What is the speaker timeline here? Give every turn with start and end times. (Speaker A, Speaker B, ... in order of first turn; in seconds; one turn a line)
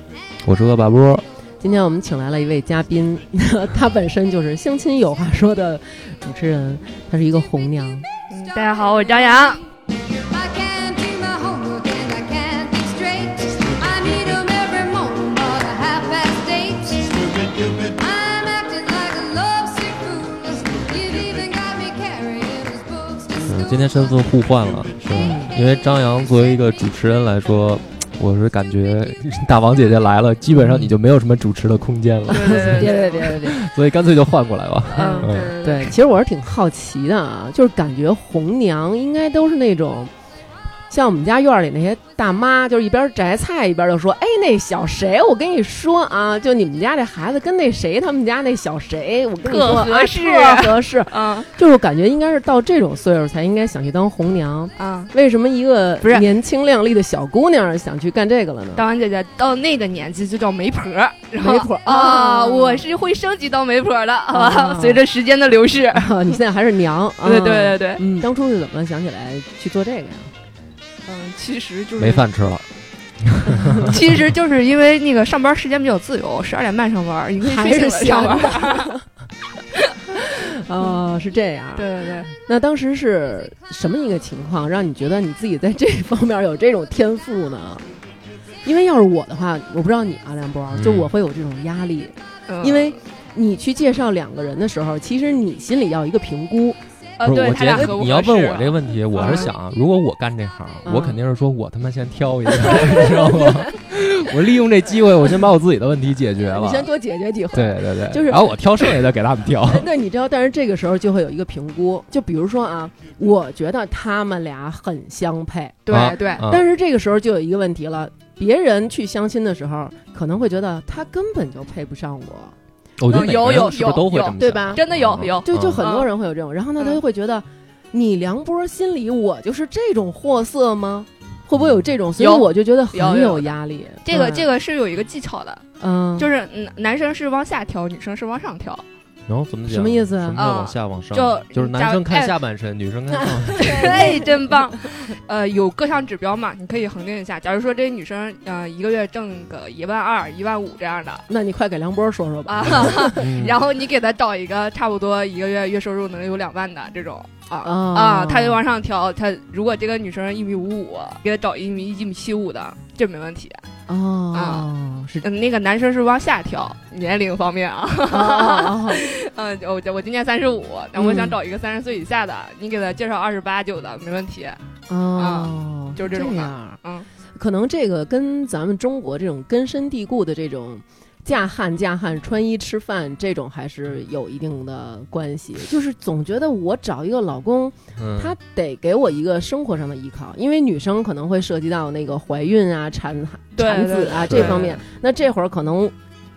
Speaker A: 0.4-1.2
Speaker B: 1.6-8.1
Speaker C: 8.3-9.6
Speaker D: 8.6-9.7
Speaker D: 10.2-24.1
Speaker A: 23.4-35.5
Speaker B: 25.1-25.5
Speaker B: 30.6-30.9
Speaker C: 32.3-33.4
Speaker B: 32.3-33.6
Speaker C: 34.9-36.0
Speaker B: 35.0-40.1
Speaker B: 40.9-58.8
Speaker C: 49.4-51.5
Speaker C: 54.8-55.1
Speaker C: 56.0-56.3
Speaker C: 58.8-66.4
Speaker B: 61.4-62.9
Speaker B: 64.3-65.0
Speaker B: 65.9-70.3
Speaker C: 67.2-68.0
Speaker C: 71.0-72.2
Speaker A: 72.0-72.7
Speaker A: 73.2-74.2
Speaker B: 73.5-73.9
Speaker C: 73.9-78.9
Speaker B: 77.4-79.0
Speaker B: 80.1-87.8
Speaker C: 81.7-82.3
Speaker B: 88.6-96.8
Speaker A: 90.7-91.1
Speaker C: 92.5-92.9
Speaker C: 97.2-99.5
Speaker A: 97.2-106.9
Speaker B: 97.6-97.9
Speaker B: 100.8-101.2
Speaker B: 102.5-103.7
Speaker B: 106.5-108.5
Speaker A: 107.5-109.9
Speaker B: 109.7-115.8
Speaker C: 115.8-116.4
Speaker A: 115.9-116.7
Speaker B: 116.4-122.5
Speaker A: 123.0-125.9
Speaker C: 123.1-126.1
Speaker B: 123.2-123.7
Speaker B: 124.4-134.5
Speaker A: 131.6-131.8
Speaker C: 132.2-135.6
Speaker B: 135.8-136.3
Speaker C: 136.2-138.8
Speaker A: 139.3-144.2
Speaker B: 139.7-140.4
Speaker C: 140.3-142.3
Speaker B: 143.2-144.6
Speaker C: 143.5-151.2
Speaker B: 151.3-153.4
Speaker C: 152.5-163.6
Speaker A: 153.2-153.6
Speaker B: 157.6-158.6
Speaker B: 163.9-165.2
Speaker C: 164.3-164.7
Speaker C: 165.2-174.6
Speaker B: 168.1-169.0
Speaker B: 170.9-171.4
Speaker B: 174.9-176.8
Speaker C: 175.2-177.1
Speaker B: 177.3-195.9
Speaker A: 187.9-188.3
Speaker C: 193.6-194.8
Speaker A: 194.2-194.8